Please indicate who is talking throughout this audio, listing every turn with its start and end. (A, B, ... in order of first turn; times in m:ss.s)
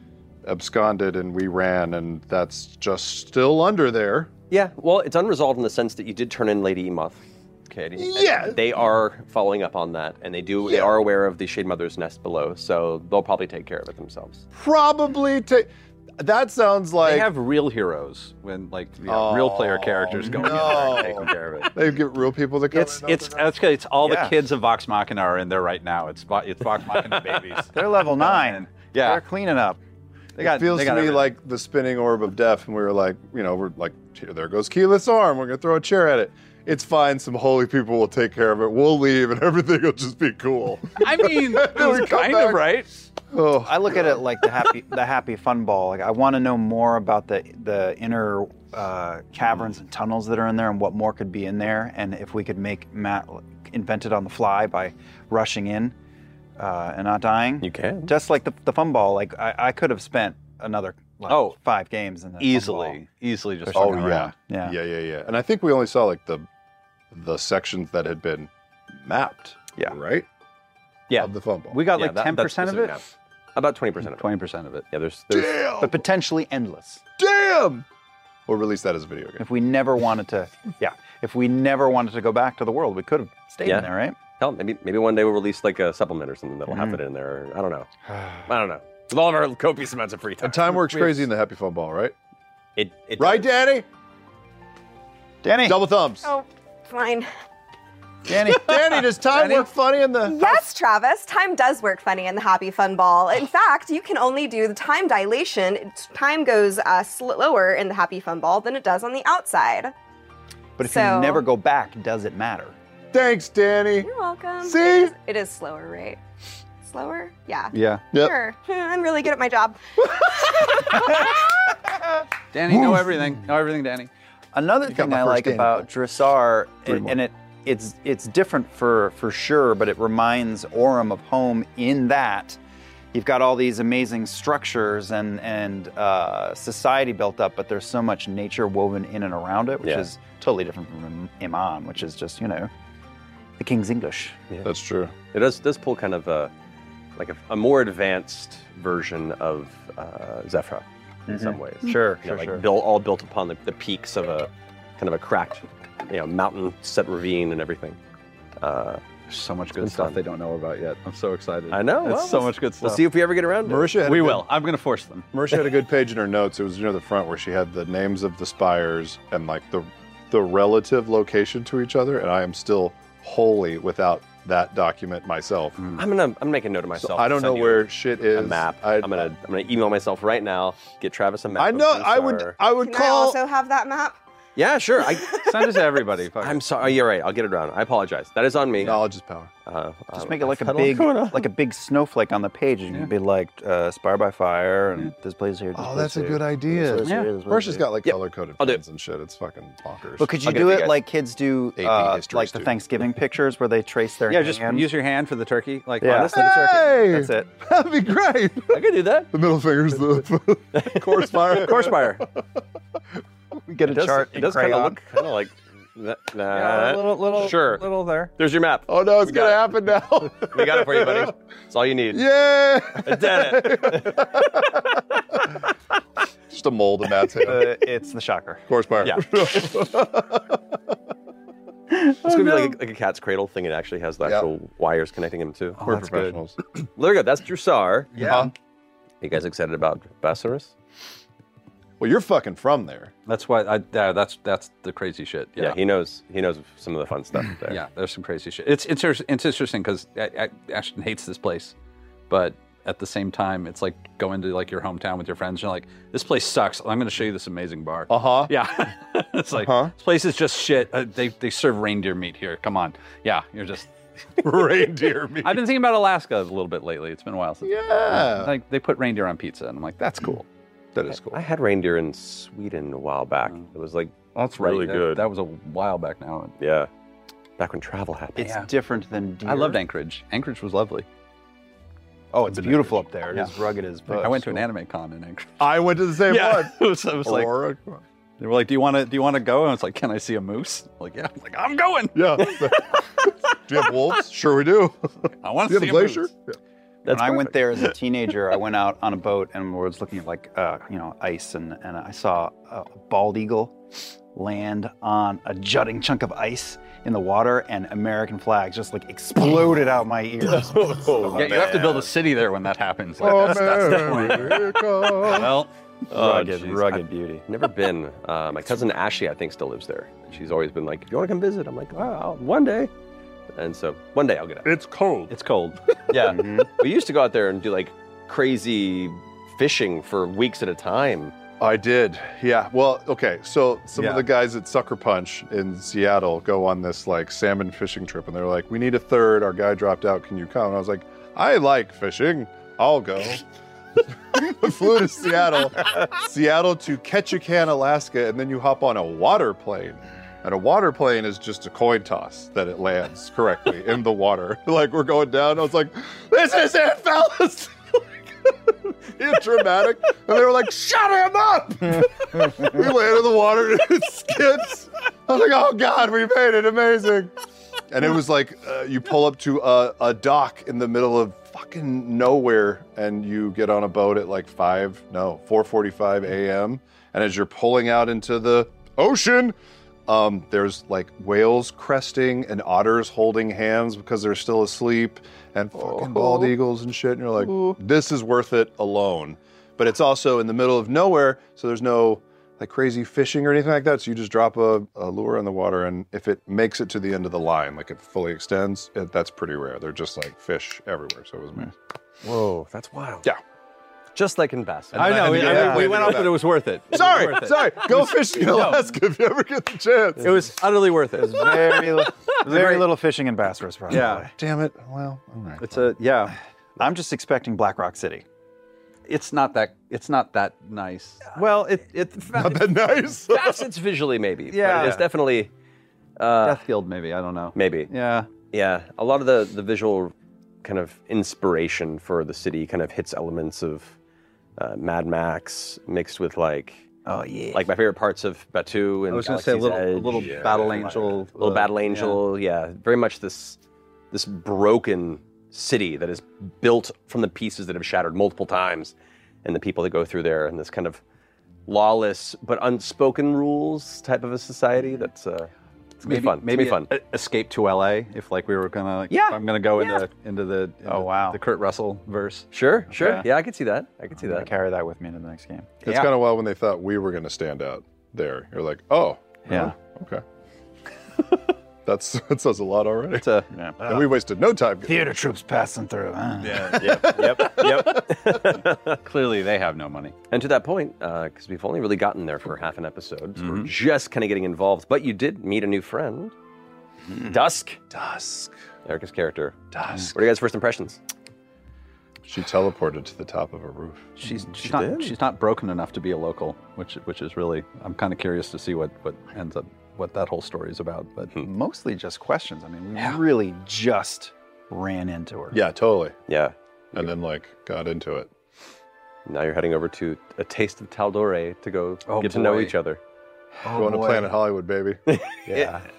0:00.4-0:04.3 A
0:04.5-0:14.4 B
0:08.0-0:08.6 A
0:10.6-0:11.0 A
0:14.5-0:17.3 A
0:17.0-0:21.7 C
0:19.0-0:23.6 A
0:22.7-0:29.2 C
0:24.0-0:24.4 D
0:27.7-0:29.8 D
0:30.4-0:31.3 C
0:30.4-0:42.7 A
0:41.0-0:42.9 C
0:43.3-0:44.2 A
0:43.6-0:55.9 D
0:56.6-1:03.0 D
0:57.6-0:58.1 B
1:01.3-1:01.6 C
1:02.4-1:04.3 C
1:03.6-1:04.8 D
1:03.7-1:06.5 A
1:07.1-1:10.2 A
1:11.1-1:13.0 C
1:11.2-1:11.8 A
1:11.9-1:14.3 B
1:14.0-1:14.8 C
1:14.9-1:15.7 B
1:15.3-1:16.0 A
1:15.8-1:17.0 D
1:17.2-1:17.8 A
1:18.5-1:19.4 A
1:19.4-1:24.2 D
1:23.6-1:27.9 B
1:26.7-1:27.0 D
1:28.4-1:30.9 B
1:30.4-1:32.1 A
1:32.8-1:33.5 B
1:33.2-1:33.9 A
1:35.4-1:35.8 D
1:35.6-1:36.3 A
1:36.2-1:37.3 E
1:38.3-1:39.2 D
1:38.4-1:40.6 A
1:40.2-1:49.9 E
1:50.8-1:52.8 D
1:50.8-1:51.4 E
1:53.1-1:54.1 A
1:54.0-1:56.2 E
1:54.6-1:55.1 A
1:56.8-2:01.3 E
1:57.7-1:58.1 C
2:02.5-2:04.1 C
2:02.7-2:03.2 A
2:04.5-2:12.6 D
2:04.8-2:05.9 A
2:06.8-2:07.2 A
2:13.1-2:22.7 D
2:23.6-2:24.4 D
2:24.6-2:25.1 A
2:25.3-2:26.5 B
2:27.2-2:38.0 B
2:31.3-2:32.6 D
2:38.6-2:39.0 B
2:39.3-2:43.0 C
2:39.8-2:40.2 B
2:41.7-2:44.0 B
2:43.6-2:44.5 A
2:44.0-2:45.3 C
2:45.3-2:55.8 A
2:55.9-3:02.6 B
2:57.0-2:59.3 A
3:01.5-3:03.4 A
3:02.7-3:04.2 E
3:04.6-3:09.0 B
3:05.1-3:05.4 E
3:05.4-3:06.6 C
3:08.8-3:09.5 A
3:09.6-3:11.5 B
3:10.1-3:17.8 D
3:15.7-3:20.4 A
3:17.0-3:17.3 C
3:18.0-3:18.8 B
3:20.2-3:24.9 D
3:20.4-3:21.0 B
3:21.8-3:22.8 A
3:24.3-3:26.4 C
3:26.0-3:27.5 D
3:26.1-3:26.4 B
3:26.2-3:32.2 A
3:28.7-3:29.3 B
3:30.7-3:31.7 B
3:31.5-3:32.2 C
3:33.7-3:35.0 D
3:33.8-3:39.7 B
3:36.5-3:38.3 C
3:38.9-3:41.3 A
3:40.4-3:42.2 B
3:42.1-3:45.0 A
3:43.0-3:44.4 B
3:46.5-3:47.7 A
3:47.4-3:48.6 D
3:48.7-3:50.6 A
3:52.2-3:55.8 B
3:55.8-3:56.4 C
3:55.8-3:56.6 A
3:57.0-3:58.4 B
3:58.2-3:58.5 D
3:58.2-3:58.5 A
3:59.2-4:00.7 B
4:02.0-4:03.1 A
4:03.3-4:05.8 C
4:05.6-4:07.8 B
4:07.7-4:11.7 C
4:12.3-4:23.9 C
4:18.1-4:18.5 A
4:19.6-4:19.9 A
4:24.4-4:25.7 A
4:25.4-4:30.5 C
4:27.6-4:28.5 A
4:30.9-4:31.4 A
4:31.1-4:35.2 B
4:34.3-4:36.5 C
4:36.6-4:36.9 B
4:37.6-4:38.6 B
4:38.4-4:39.8 D
4:38.4-4:38.7 C
4:39.4-4:41.0 C
4:42.3-4:44.6 D
4:42.5-4:43.5 C
4:44.1-4:45.6 C
4:45.6-4:48.0 A
4:46.2-4:47.5 C
4:48.4-4:52.7 C
4:52.1-4:56.6 A
4:55.4-4:56.3 C
4:57.0-4:57.9 B
4:57.0-5:03.8 D
5:04.3-5:11.8 D
5:10.4-5:12.1 B
5:11.3-5:15.7 C
5:13.2-5:15.6 A
5:16.1-5:17.4 D
5:16.1-5:22.9 B
5:23.5-5:24.7 B
5:24.6-5:25.3 A
5:25.3-5:25.8 C
5:26.1-5:31.3 B
5:26.2-5:26.7 D
5:31.6-5:43.4 A
5:34.0-5:34.2 C
5:44.3-6:07.3 A
6:07.9-6:19.6 A
6:20.1-6:41.7 A
6:26.0-6:26.5 D
6:27.5-6:27.7 D
6:42.2-6:43.3 B
6:44.1-6:46.3 B
6:44.9-6:48.9 C
6:44.9-6:50.6 A
6:45.3-6:45.8 D
6:46.9-6:47.7 B
6:50.2-6:52.9 C
6:51.1-6:54.3 D
6:53.9-6:54.3 C
6:54.4-6:55.7 A
6:55.6-6:56.4 C
6:56.8-6:58.2 D
6:59.1-7:02.7 C
7:02.3-7:03.7 A
7:03.3-7:05.5 B
7:04.5-7:05.1 C
7:06.2-7:06.6 B
7:06.4-7:08.3 C
7:07.5-7:07.9 B
7:08.5-7:10.1 B
7:10.6-7:14.0 B
7:14.6-7:16.8 B
7:17.0-7:17.7 D
7:17.5-7:23.6 B
7:19.1-7:22.2 C
7:24.1-7:31.0 B
7:31.7-7:35.5 B
7:36.0-7:36.9 B
7:36.0-7:42.5 C
7:39.1-7:39.9 B
7:40.8-7:41.4 D
7:42.5-7:44.5 B
7:42.9-7:43.2 D
7:44.2-7:45.7 D
7:45.8-7:50.2 A
7:45.8-7:46.1 C
7:51.8-7:55.0 A
7:53.2-7:53.5 C
7:53.5-7:54.1 D
7:54.8-7:57.0 D
7:56.4-7:58.0 C
7:56.8-7:59.0 B
7:56.9-7:58.0 A
7:59.0-8:00.2 C
8:00.3-8:06.3 B
8:03.4-8:03.7 C
8:07.2-8:07.8 B
8:07.9-8:08.5 A
8:08.8-8:11.0 B
8:09.7-8:10.1 A
8:12.2-8:14.1 A
8:14.2-8:21.3 C
8:14.6-8:15.1 B
8:21.4-8:25.6 D
8:25.5-8:26.2 A
8:26.3-8:27.0 B
8:26.9-8:28.3 A
8:29.2-8:33.0 B
8:32.0-8:32.8 C
8:33.6-8:34.3 D
8:33.7-8:35.7 A
8:35.1-8:35.4 B
8:35.5-8:35.8 D